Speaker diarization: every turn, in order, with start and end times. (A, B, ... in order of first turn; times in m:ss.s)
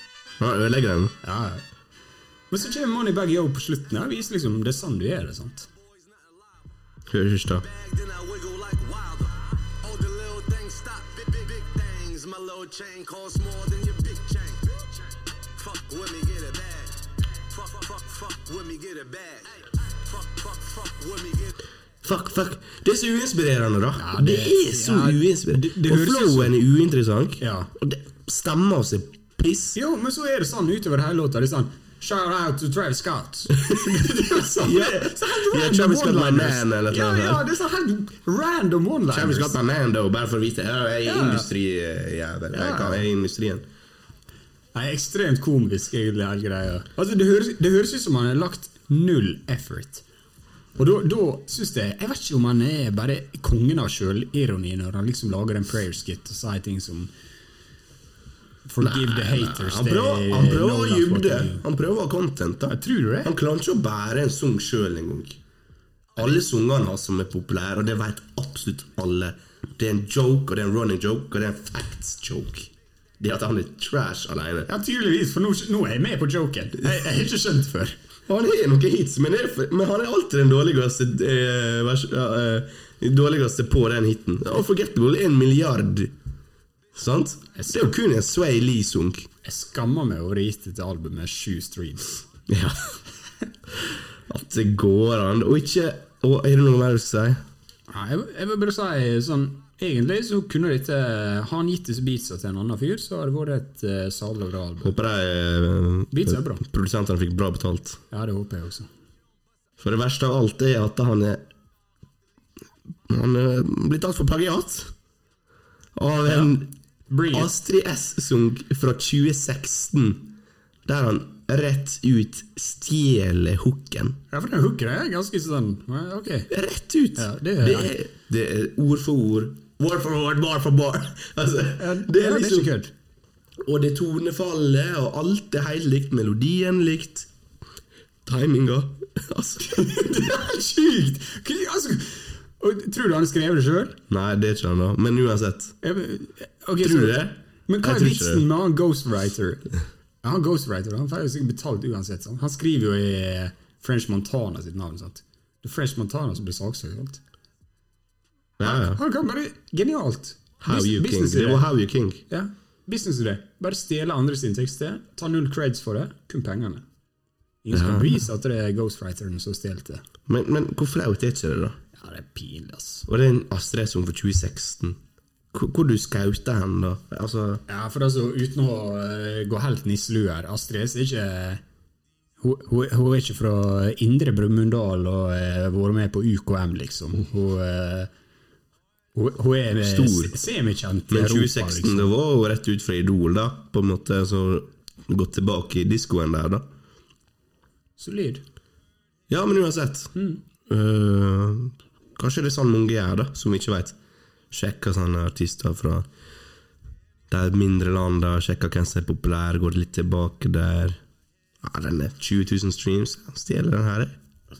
0:00.4-0:01.2 A
0:01.2-0:01.6 B
0:02.5-0:05.7 B
0:06.0-0:06.5 C
0:07.1-0:07.6 A
0:07.5-0:21.6 C
0:22.0-0:29.8 A
0:24.0-0:26.6 B
0:27.4-0:27.7 B
0:29.8-0:39.6 B
0:34.6-0:37.5 A
0:39.1-0:43.7 A
0:41.0-0:41.5 B
0:42.5-0:43.0 B
0:44.7-0:50.0 B
0:50.8-0:57.1 B
0:58.7-1:01.6 B
0:58.8-1:05.4 A
1:02.7-1:03.3 B
1:06.2-1:14.7 A
1:14.7-1:18.0 B
1:18.3-1:26.1 A
1:26.9-1:29.3 A
1:27.6-1:27.9 B
1:29.4-1:32.2 B
1:32.5-1:33.0 A
1:33.8-1:37.4 A
1:37.9-1:45.0 B
1:44.8-1:48.0 A
1:46.1-1:46.6 B
1:48.1-1:48.9 B
1:49.8-1:51.5 A
1:53.1-1:54.9 A
1:56.0-1:56.7 A
1:56.3-1:57.5 B
1:57.3-2:00.4 A
2:00.9-2:04.2 A
2:04.3-2:06.5 B
2:06.5-2:12.7 A
2:07.2-2:07.9 B
2:11.8-2:12.9 B
2:13.6-2:17.3 A
2:18.2-2:20.3 A
2:19.6-2:24.0 B
2:24.1-2:25.8 A
2:25.8-2:29.7 B
2:26.8-2:28.4 A
2:30.2-2:37.2 B
2:38.6-2:39.0 A
2:38.6-2:41.7 B
2:40.6-2:42.2 A
2:42.3-2:46.8 B
2:47.6-2:50.0 B
2:47.7-2:48.2 A
2:50.3-2:51.8 A
2:51.9-2:53.1 B
2:53.1-2:55.0 A
2:55.5-2:57.6 A
2:57.7-3:01.6 B
3:02.4-3:08.1 B
3:09.2-3:12.1 B
3:09.8-3:10.4 A
3:11.1-3:16.7 A
3:18.0-3:18.4 B
3:19.3-3:20.2 A
3:20.2-3:20.4 B
3:20.7-3:24.0 A
3:24.5-3:26.1 A
3:27.3-3:31.0 A
3:31.6-3:34.2 A